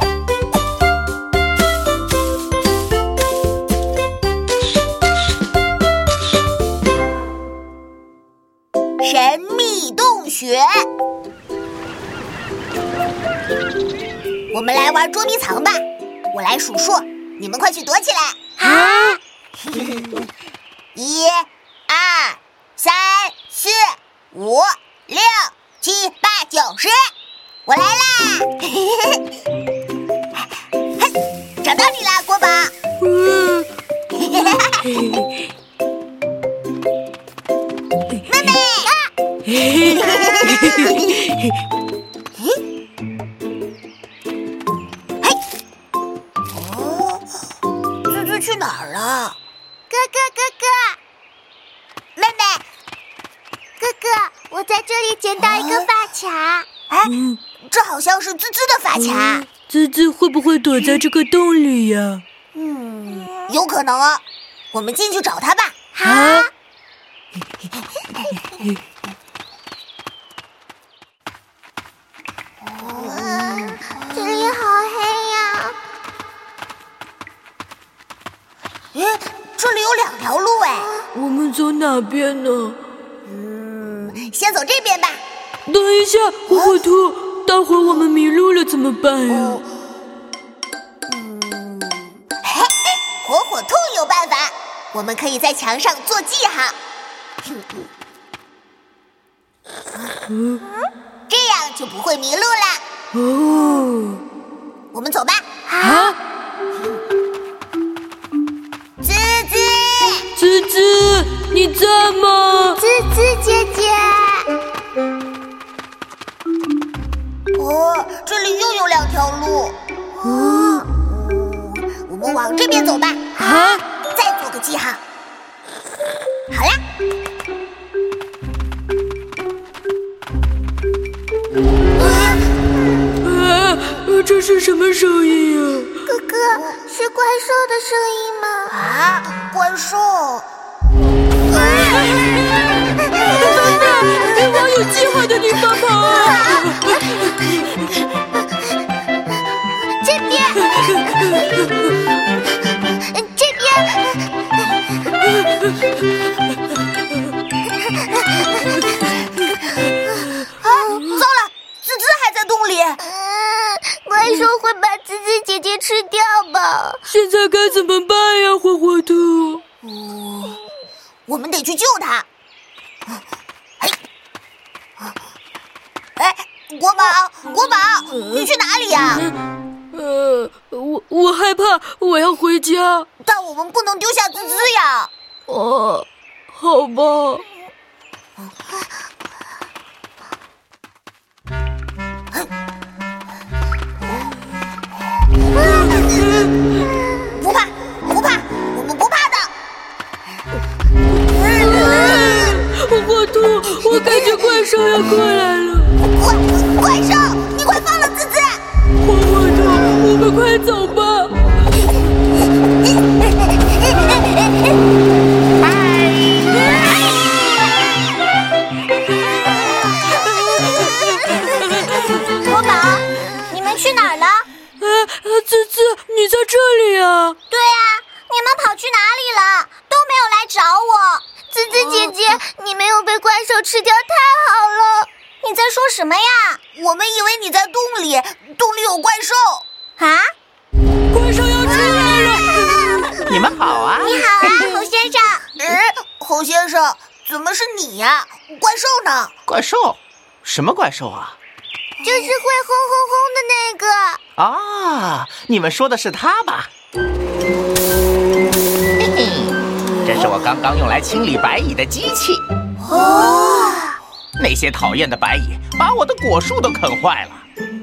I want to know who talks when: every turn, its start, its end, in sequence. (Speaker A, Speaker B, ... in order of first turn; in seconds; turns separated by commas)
Speaker A: 9.0-10.9, Speaker A: 14.5-18.8, Speaker A: 19.7-20.1, Speaker A: 20.9-27.0, Speaker A: 27.7-29.2, Speaker A: 31.6-32.7, Speaker B: 33.0-33.7, Speaker A: 34.1-35.0, Speaker B: 34.9-35.4, Speaker A: 38.2-39.1, Speaker B: 39.5-41.5, Speaker A: 39.7-41.1, Speaker A: 46.5-47.2, Speaker A: 48.1-49.4, Speaker C: 49.9-51.0, Speaker A: 52.2-52.6, Speaker C: 53.8-56.7, Speaker A: 55.4-55.9, Speaker A: 56.9-59.5, Speaker B: 57.1-57.4, Speaker B: 59.0-62.2, Speaker A: 62.6-65.9, Speaker B: 66.0-66.5, Speaker C: 66.0-66.5, Speaker A: 72.7-74.6, Speaker C: 73.1-75.8, Speaker A: 78.9-80.9, Speaker B: 81.1-82.8, Speaker A: 83.3-85.2, Speaker B: 85.7-89.6, Speaker A: 89.3-89.6, Speaker A: 91.1-96.8, Speaker A: 101.3-102.8, Speaker B: 103.2-104.2, Speaker A: 104.9-105.5, Speaker C: 105.7-106.1, Speaker B: 105.8-106.2, Speaker A: 109.0-110.3, Speaker B: 110.4-112.8, Speaker C: 112.8-114.5, Speaker A: 117.5-119.8, Speaker A: 120.3-123.4, Speaker B: 120.5-120.8, Speaker B: 123.4-123.8, Speaker A: 124.1-125.0, Speaker A: 126.5-126.8, Speaker A: 132.0-132.4, Speaker B: 133.2-136.0, Speaker C: 136.1-138.7, Speaker A: 138.7-140.5, Speaker C: 141.5-142.1, Speaker A: 141.7-142.2, Speaker A: 143.2-143.6, Speaker B: 143.3-147.0, Speaker C: 150.0-151.2, Speaker C: 153.0-154.2, Speaker A: 160.8-163.1, Speaker C: 163.1-167.0, Speaker B: 167.1-169.6, Speaker A: 169.8-170.6, Speaker A: 171.3-172.3, Speaker A: 176.2-179.3, Speaker B: 179.9-183.1, Speaker A: 183.2-185.1, Speaker B: 185.5-187.5, Speaker B: 195.6-196.5, Speaker A: 197.3-199.5, Speaker A: 201.3-202.6, Speaker B: 201.6-205.9, Speaker A: 206.0-208.6, Speaker B: 209.0-211.6, Speaker D: 215.6-217.1, Speaker B: 220.0-221.9, Speaker C: 220.7-221.2, Speaker C: 222.4-224.5, Speaker B: 224.8-227.4, Speaker C: 227.5-236.6, Speaker A: 236.7-239.7, Speaker C: 240.0-240.3, Speaker B: 241.1-243.3, Speaker D: 243.3-244.8, Speaker C: 244.0-245.5, Speaker A: 245.5-249.3, Speaker D: 249.5-251.4, Speaker C: 252.0-254.2, Speaker D: 254.4-256.7, Speaker D: 259.0-262.4, Speaker A: 262.8-263.9, Speaker C: 263.0-263.7, Speaker D: 264.4-267.5